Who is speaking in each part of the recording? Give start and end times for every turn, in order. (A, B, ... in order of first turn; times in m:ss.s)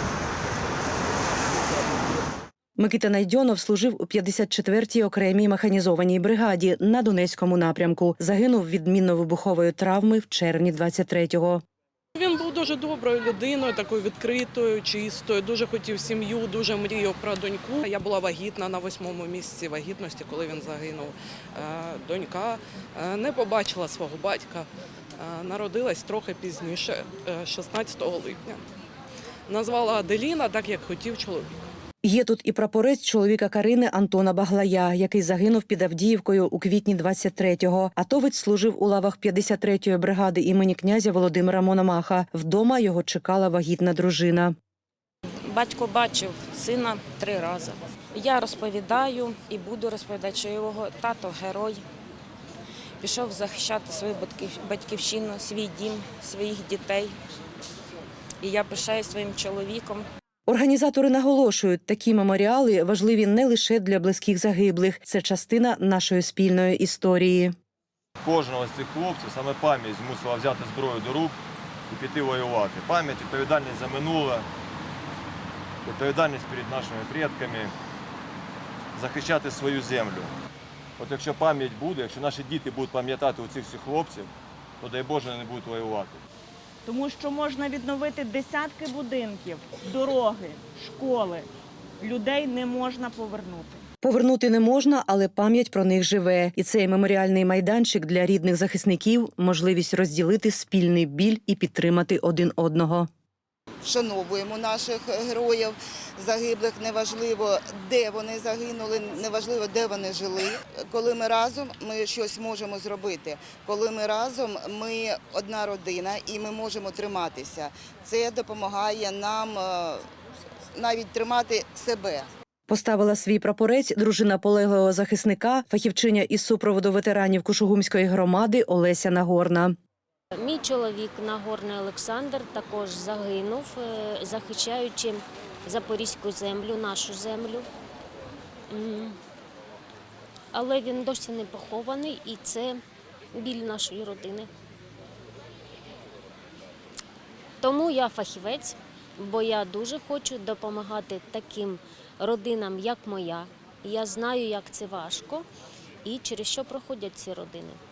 0:02.8-0:11.6 A
0:12.2-0:24.6 B
0:16.0-0:16.6 C
0:25.2-0:28.6 B
0:29.5-0:31.6 B
0:32.0-0:44.5 A
0:45.4-0:51.8 D
0:53.0-0:57.2 D
0:58.4-1:00.0 D
1:00.5-1:07.5 A
1:08.2-1:11.4 E
1:11.9-1:14.5 E
1:15.8-1:17.8 E
1:18.9-1:20.3 E
1:21.0-1:24.3 E
1:24.8-1:26.2 E
1:26.8-1:31.5 F
1:32.0-1:33.8 F
1:34.0-1:43.1 A
1:43.8-2:00.0 G
2:00.8-2:02.3 G
2:02.7-2:09.7 A
2:10.4-2:17.7 C
2:18.7-2:19.2 C
2:20.5-2:22.8 C
2:23.3-2:24.5 C
2:27.6-2:35.4 C
2:36.0-2:37.8 C